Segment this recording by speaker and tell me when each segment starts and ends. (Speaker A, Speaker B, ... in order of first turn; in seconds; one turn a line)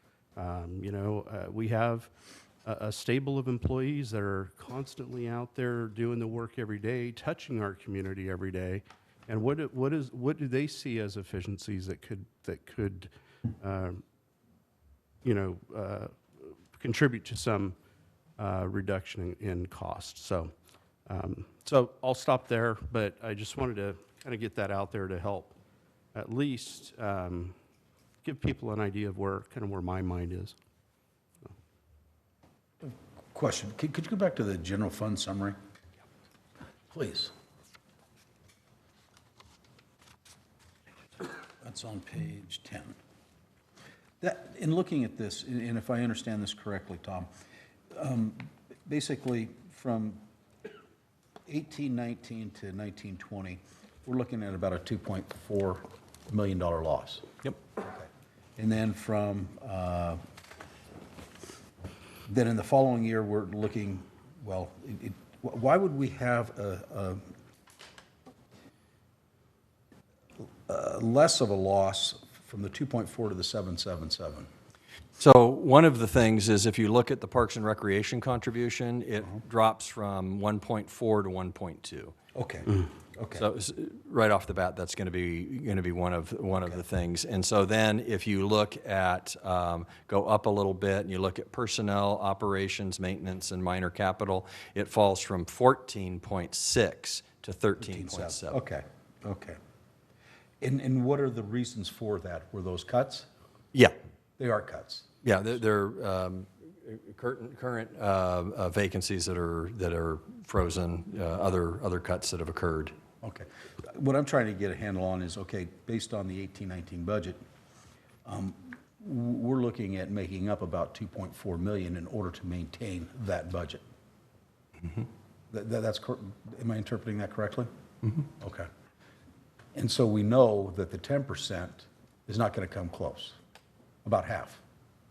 Speaker A: 0.4-2.1
Speaker A: 2.6-14.0
Speaker A: 15.2-17.8
Speaker A: 18.4-20.5
Speaker A: 21.1-25.6
Speaker A: 26.1-27.6
Speaker A: 28.2-30.6
Speaker B: 32.8-35.6
Speaker B: 36.9-37.3
Speaker B: 41.6-42.9
Speaker B: 44.2-47.3
Speaker B: 47.9-50.2
Speaker B: 51.5-57.3
Speaker B: 57.8-60.2
Speaker B: 62.3-67.2
Speaker B: 70.7-74.5
Speaker C: 75.2-82.2
Speaker B: 82.3-83.5
Speaker C: 83.4-98.6
Speaker B: 97.8-99.6
Speaker B: 100.6-103.3
Speaker B: 104.4-105.1
Speaker C: 105.2-112.9
Speaker B: 113.2-117.4
Speaker B: 118.2-123.8
Speaker B: 125.5-128.7
Speaker B: 129.8-133.4
Speaker B: 134.0-134.6